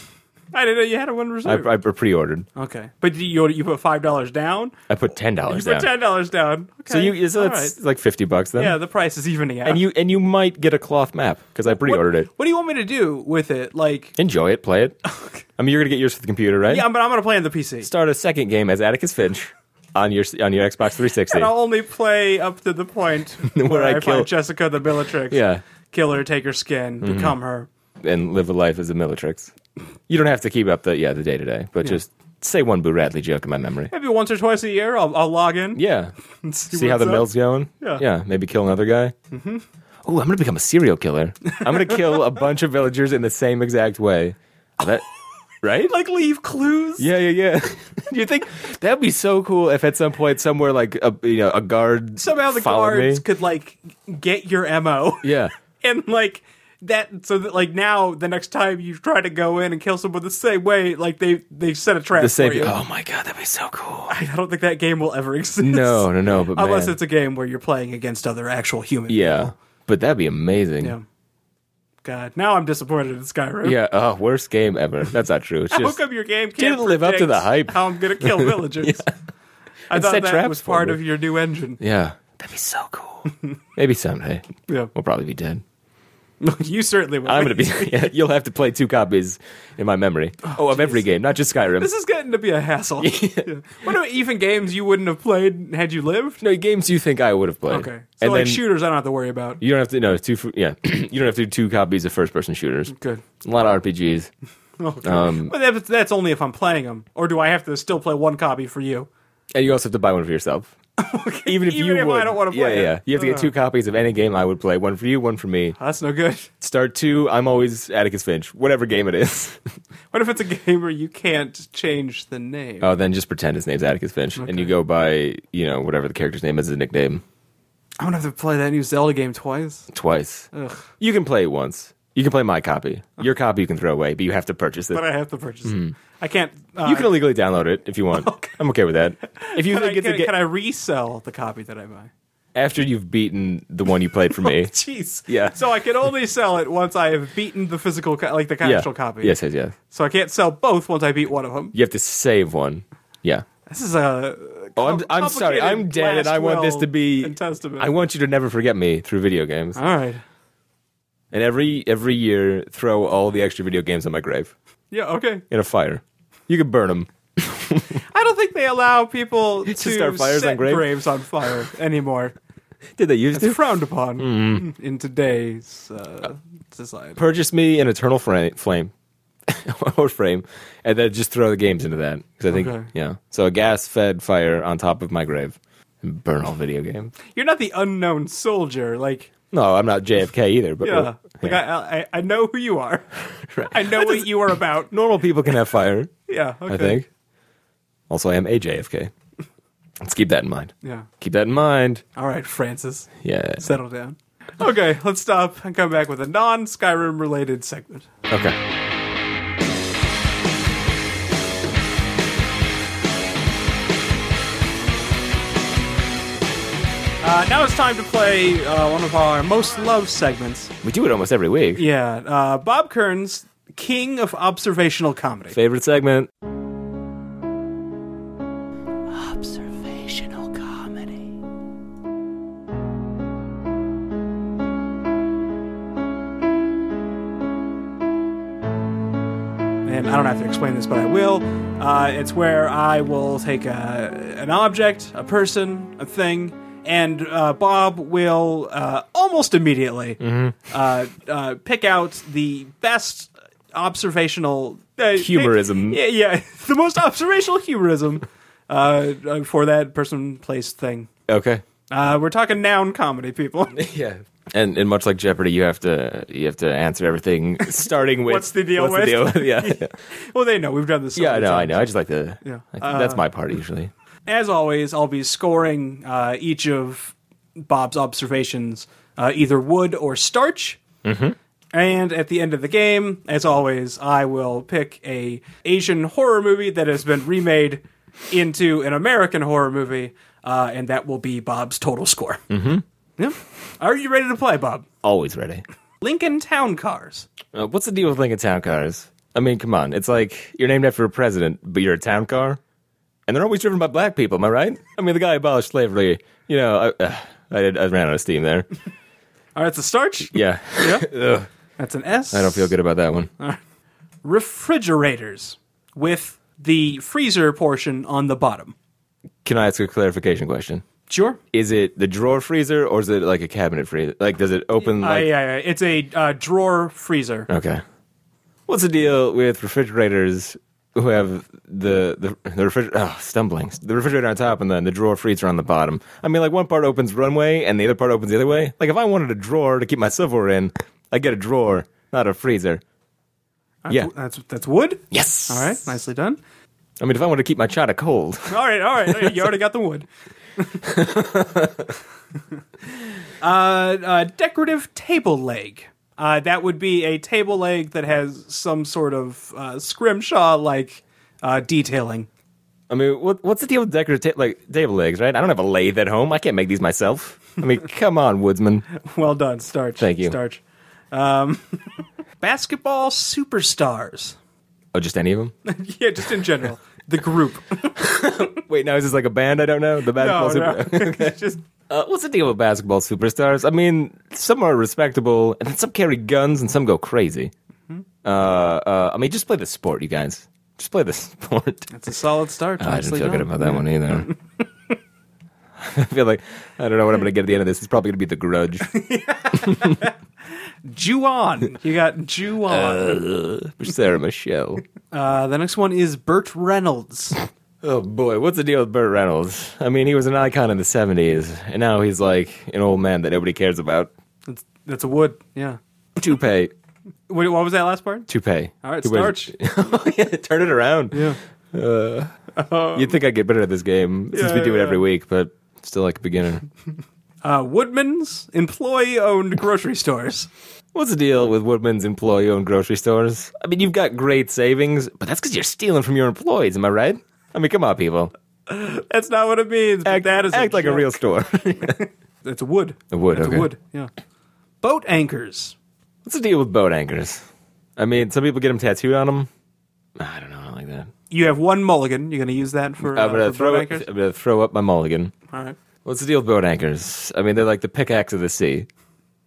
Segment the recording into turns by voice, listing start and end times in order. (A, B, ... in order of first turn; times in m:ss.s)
0:00.5-0:01.7 A
0:01.4-0:02.4 B
0:02.5-0:04.7 A
0:04.9-0:05.9 B
0:05.5-0:07.7 A
0:06.9-0:08.8 B
0:08.6-0:09.8 A
0:09.6-0:12.3 B
0:11.7-0:14.1 A
0:14.2-0:15.0 B
0:15.6-0:16.8 B
0:16.7-0:17.9 A
0:17.8-0:21.5 B
0:21.3-0:27.7 A
0:23.5-0:24.3 B
0:25.3-0:25.6 B
0:27.0-0:27.4 B
0:28.0-0:29.5 B
0:30.1-0:33.9 B
0:33.9-0:35.8 A
0:35.7-0:36.1 B
0:36.4-0:37.3 A
0:36.7-0:39.1 B
0:39.3-0:39.6 A
0:40.0-0:45.0 B
0:45.6-0:45.9 B
0:45.8-0:47.1 A
0:47.0-0:53.2 B
0:52.2-1:02.8 A
0:55.2-0:55.5 B
1:02.2-1:04.1 B
1:04.1-1:09.5 A
1:05.6-1:07.0 B
1:09.1-1:10.9 B
1:12.0-1:13.8 A
1:13.6-1:16.0 B
1:15.7-1:19.1 A
1:16.6-1:19.1 B
1:19.9-1:21.0 B
1:19.9-1:21.8 A
1:21.8-1:25.6 B
1:26.4-1:28.1 A
1:27.2-1:31.9 B
1:30.4-1:31.0 A
1:31.8-1:36.4 A
1:33.0-1:33.5 B
1:36.4-1:38.6 B
1:37.7-1:39.6 A
1:39.6-1:44.3 B
1:42.9-1:43.2 A
1:44.8-1:49.1 A
1:45.0-1:45.5 B
1:49.5-1:50.7 B
1:51.0-1:53.5 A
1:51.4-1:55.8 B
1:55.8-1:56.5 A
1:56.6-1:59.6 B
2:00.1-2:02.9 A
2:02.8-2:07.2 B
2:04.4-2:04.7 A
2:08.0-2:09.9 A
2:09.9-2:10.5 B
2:10.5-2:10.9 A
2:11.0-2:15.0 B
2:14.9-2:17.1 A
2:15.6-2:15.9 B
2:16.8-2:20.3 B
2:18.2-2:18.6 A
2:19.3-2:22.1 A
2:22.5-2:24.7 B
2:24.4-2:29.4 A
2:25.3-2:25.6 B
2:28.6-2:29.7 B
2:29.9-2:31.7 A
2:31.7-2:33.4 B
2:33.7-2:37.9 A
2:34.8-2:39.8 B
2:39.8-2:40.2 A
2:41.3-2:44.5 B
2:44.9-2:45.4 A
2:45.5-2:48.0 B
2:48.1-2:52.3 A
2:49.6-2:50.9 B
2:53.0-2:54.6 B
2:53.3-2:57.2 A
2:57.2-2:58.9 B
2:59.4-3:07.1 B
3:02.5-3:02.9 A
3:07.3-3:09.3 A
3:09.5-3:11.6 B
3:10.8-3:14.9 A
3:13.5-3:16.1 B
3:16.3-3:17.0 A
3:16.7-3:17.0 B
3:18.1-3:19.1 B
3:20.0-3:22.0 B
3:20.8-3:21.1 A
3:22.2-3:28.1 A
3:23.2-3:23.6 B
3:28.3-3:28.6 B
3:37.2-3:40.7 A
3:40.8-3:41.8 B
3:41.8-3:45.6 A
3:45.5-3:46.3 B
3:49.1-3:51.3 A
3:59.8-4:21.1 A
4:10.2-4:10.5 B
4:15.2-4:16.0 B
4:21.3-4:21.6 B
4:21.9-4:23.8 A
4:23.7-4:29.9 B
4:28.2-4:31.9 A
4:31.2-4:33.9 B
4:32.4-4:33.2 A
4:34.3-4:40.8 A
4:41.0-4:41.4 B
4:41.7-4:52.4 A
4:52.5-4:52.8 B
4:53.2-4:54.9 A
4:55.0-4:55.6 B
4:56.0-4:57.3 A
4:57.5-5:02.6 B
5:03.3-5:08.7 B
5:09.6-5:11.0 A
5:10.3-5:11.5 B
5:11.8-5:12.7 A
5:12.3-5:13.3 B
5:14.2-5:18.7 A
5:19.4-5:20.8 B
5:21.1-5:21.4 A
5:21.5-5:25.3 B
5:24.8-5:27.5 A
5:27.5-5:27.8 B
5:28.7-5:42.8 B
5:43.8-5:46.4 A
5:45.1-5:45.8 B
5:47.0-5:49.5 B
5:48.5-5:50.1 A
5:50.6-5:50.8 A
5:50.8-5:51.9 B
5:53.4-6:02.3 A
6:02.9-6:08.8 B
6:09.0-6:14.4 A
6:10.0-6:10.4 B
6:14.9-6:15.5 B
6:15.6-6:18.5 A
6:18.0-6:27.5 B
6:20.1-6:21.6 A
6:28.2-6:31.9 B
6:31.9-6:34.3 A
6:32.8-6:34.3 B
6:35.8-6:38.9 B
6:38.9-6:40.1 A
6:39.6-6:40.0 B
6:40.8-6:43.2 A
6:42.7-6:44.8 B
6:45.1-6:47.4 A
6:47.8-6:54.1 B
6:54.4-6:55.8 A
6:56.2-6:56.7 B
6:57.3-6:58.3 A
6:58.3-7:02.3 B
6:58.8-6:59.5 A
7:01.1-7:01.4 A
7:02.5-7:03.2 A
7:02.9-7:06.6 B
7:04.3-7:05.0 A
7:07.4-7:10.5 A
7:10.9-7:18.3 B
7:18.7-7:21.1 A
7:20.0-7:22.0 B
7:21.8-7:24.1 A
7:23.1-7:23.7 B
7:24.8-7:25.8 A
7:26.2-7:27.4 B
7:28.0-7:29.5 B
7:30.2-7:31.1 B
7:31.3-7:34.0 A
7:33.0-7:35.3 B
7:35.5-7:35.8 A
7:36.0-7:38.9 B